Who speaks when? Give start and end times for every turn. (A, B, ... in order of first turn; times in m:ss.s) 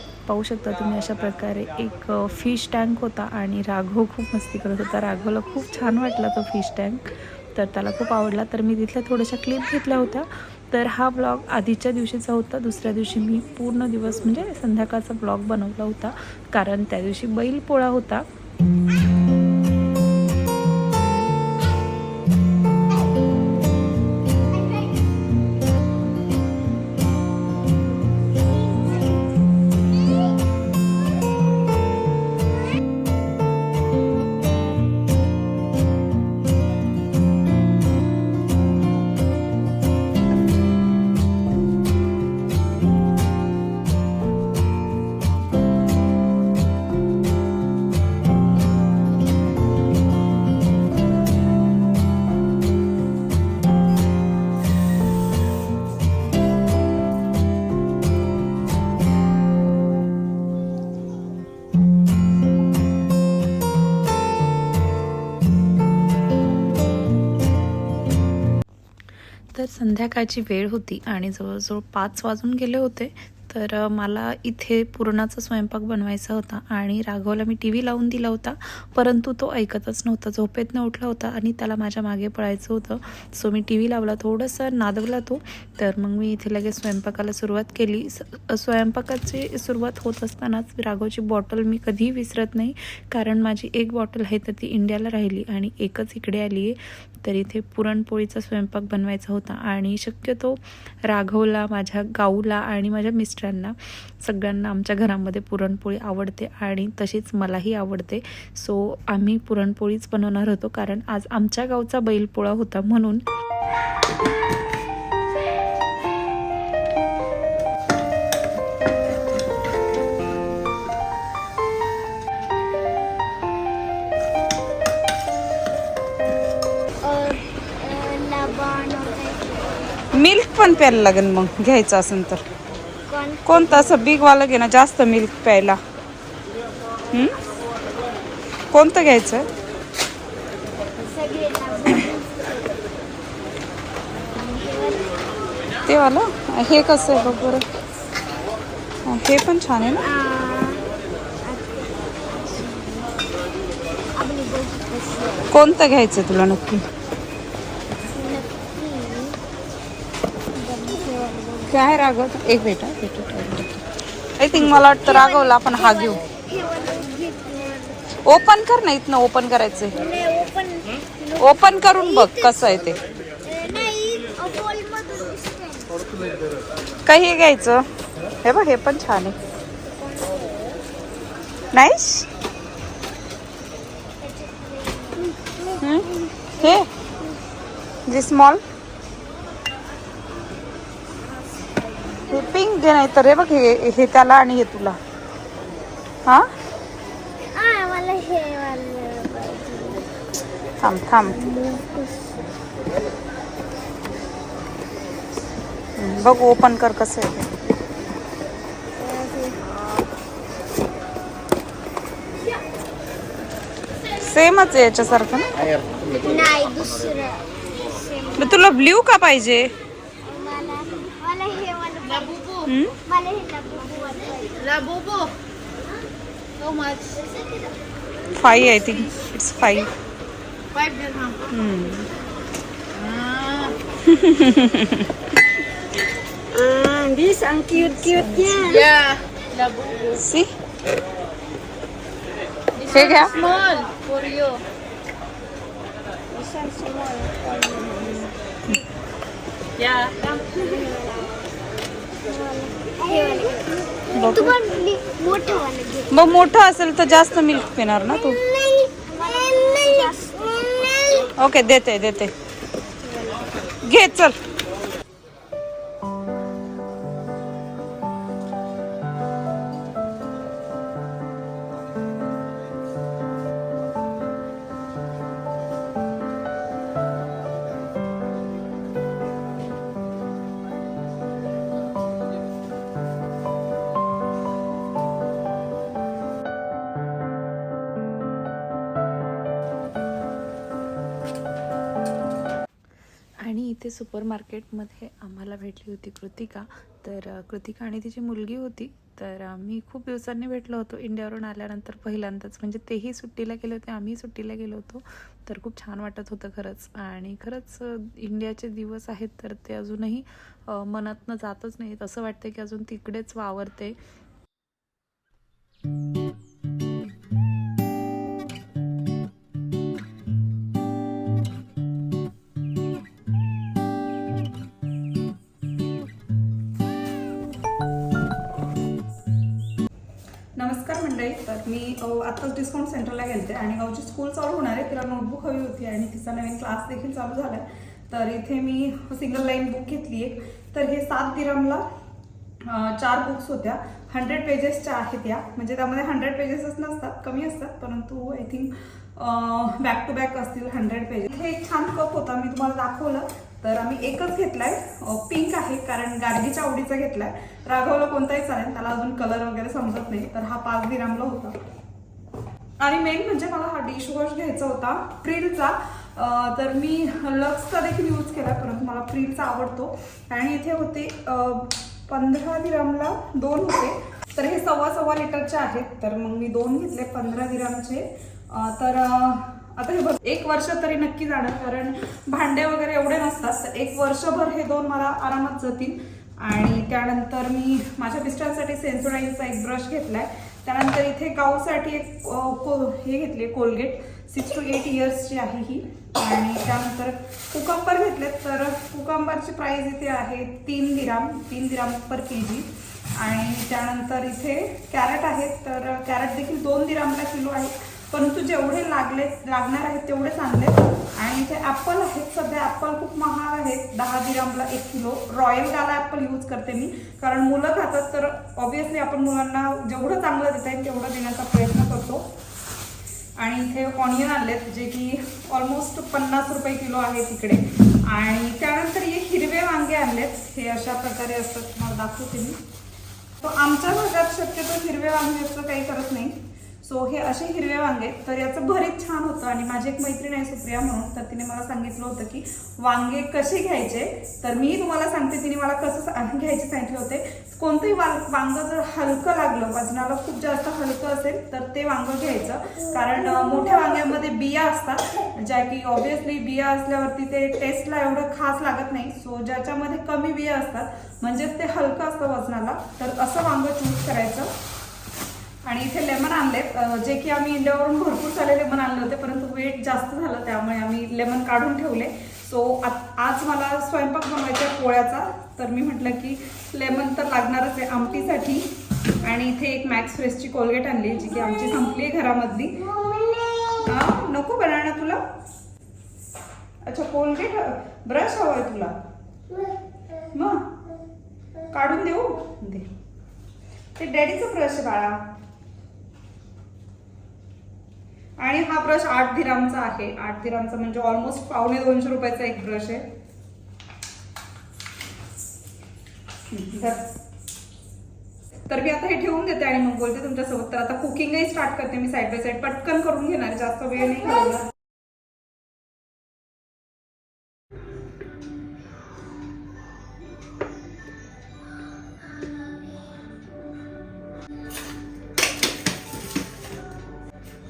0:00.2-0:18.2 A
1:09.5-1:53.2 A
2:07.0-2:09.9 B
2:10.1-2:12.4 C
2:13.1-2:14.0 B
2:13.4-2:15.8 C
2:18.7-2:19.4 C
2:21.0-2:22.7 B
2:24.3-2:25.1 B
2:25.9-2:27.6 C
2:29.0-2:30.1 C
2:30.0-2:30.9 B
2:31.4-2:33.2 B
2:34.2-2:35.5 B
2:35.5-2:36.8 C
2:38.1-2:39.4 B
2:40.5-2:41.8 B
2:41.7-2:43.8 C
2:44.4-2:46.2 C
2:44.8-2:48.1 B
2:48.2-2:50.0 C
2:49.9-2:52.6 B
2:51.4-2:53.0 C
2:53.4-2:56.0 B
2:57.0-2:57.8 C
2:58.4-2:59.4 C
2:59.8-3:00.8 B
3:01.7-3:02.3 C
3:04.2-3:06.6 B
3:05.8-3:06.9 C
3:08.1-3:08.6 C
3:12.3-3:15.0 C
3:17.5-3:20.1 B
3:20.8-3:21.4 C
3:21.2-3:22.4 B
3:26.0-3:27.5 C
3:29.0-3:29.7 B
3:34.2-3:35.5 C
3:36.1-3:38.6 B
3:38.4-3:39.7 C
3:40.2-3:44.8 B
3:42.6-3:42.9 C
3:44.8-3:45.3 D
3:46.6-3:47.2 D
3:48.3-3:49.9 C
3:50.8-3:51.4 D
3:51.5-3:52.1 C
3:53.0-3:53.7 D
3:54.0-3:55.1 C
3:56.5-3:59.0 B
3:58.9-4:00.1 D
4:00.2-4:00.5 C
4:02.9-4:03.4 C
4:03.4-4:04.6 D
4:06.3-4:08.3 B
4:10.3-4:11.3 B
4:12.3-4:16.2 B
4:14.1-4:14.6 C
4:16.1-4:18.4 C
4:18.5-4:21.3 B
4:21.4-4:22.3 C
4:23.0-4:23.5 B
4:23.8-4:24.4 C
4:53.4-5:14.0 A
5:30.6-5:41.8 C
5:42.7-6:01.6 C
6:02.8-7:02.2 C
7:03.4-7:12.6 C
7:13.4-7:44.5 C
7:45.6-7:58.7 C
7:59.2-8:02.9 C
8:02.9-8:03.8 B
8:03.8-8:05.2 C
8:06.8-8:08.9 C
8:10.3-8:10.7 C
8:11.7-8:12.9 C
8:14.0-8:15.2 C
8:18.4-8:23.0 C
8:26.5-8:27.0 C
8:28.7-8:34.7 C